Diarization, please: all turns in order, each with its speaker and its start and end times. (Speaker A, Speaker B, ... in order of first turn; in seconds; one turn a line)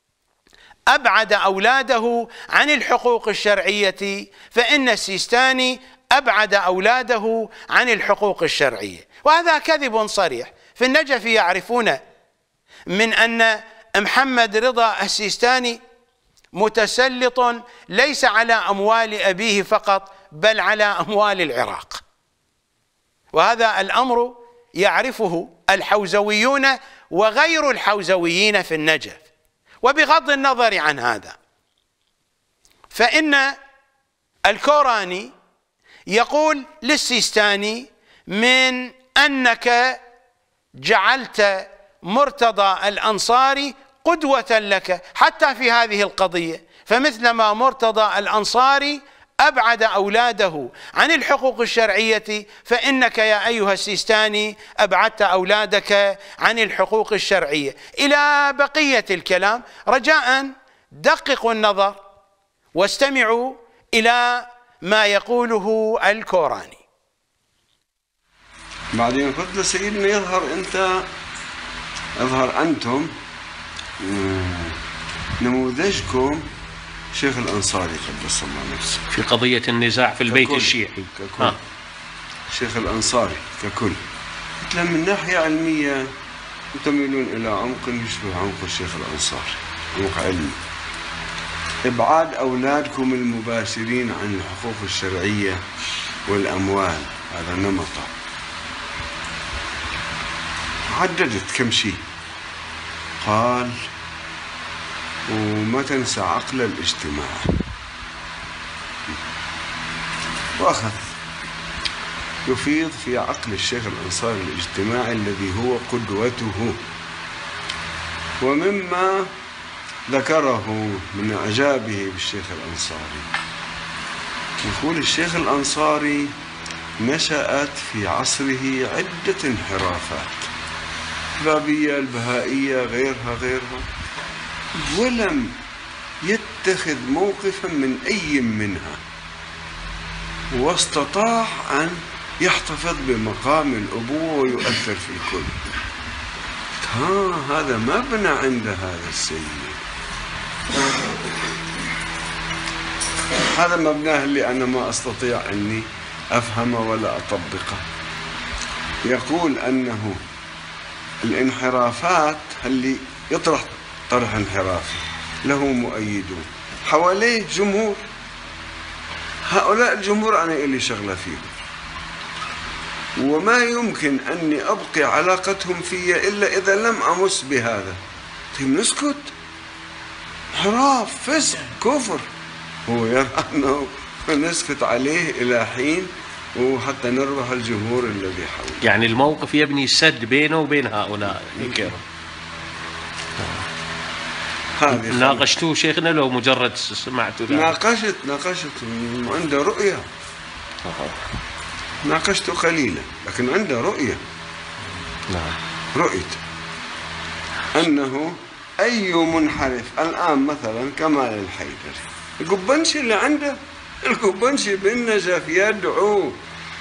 Speaker A: 0.9-12.0
Speaker A: 12.9-15.8
Speaker A: 16.5-22.0
Speaker A: 23.3-29.2
Speaker A: 29.8-31.4
Speaker A: 32.9-33.5
Speaker A: 34.5-35.3
Speaker A: 36.1-40.0
Speaker A: 40.8-62.0
Speaker A: 62.7-66.8
Speaker B: 68.9-71.0
Speaker B: 72.2-73.1
Speaker B: 74.0-74.8
Speaker B: 75.4-76.5
Speaker B: 77.1-79.0
Speaker C: 79.1-81.5
Speaker B: 80.3-81.5
Speaker B: 82.5-84.0
Speaker B: 84.6-86.1
Speaker B: 86.8-90.6
Speaker B: 91.9-95.6
Speaker B: 96.3-98.1
Speaker B: 100.9-102.0
Speaker B: 103.2-103.8
Speaker B: 105.3-107.5
Speaker B: 110.6-111.1
Speaker B: 112.4-116.8
Speaker B: 118.4-119.3
Speaker B: 120.1-123.3
Speaker B: 124.6-126.3
Speaker B: 127.0-130.5
Speaker B: 131.4-133.9
Speaker B: 134.8-135.6
Speaker B: 136.2-139.0
Speaker B: 140.5-145.6
Speaker B: 146.8-149.8
Speaker B: 153.5-157.8
Speaker B: 159.0-160.2
Speaker B: 161.2-168.0
Speaker B: 169.5-171.6
Speaker B: 173.2-178.0
Speaker B: 178.5-179.3
Speaker B: 180.5-182.2
Speaker B: 182.9-188.8
Speaker C: 188.8-192.0
Speaker B: 191.6-191.9
Speaker B: 194.8-195.6
Speaker C: 194.9-197.8
Speaker B: 197.5-200.0
Speaker B: 202.0-204.2
Speaker C: 205.3-205.5
Speaker B: 205.9-206.4
Speaker B: 207.7-216.4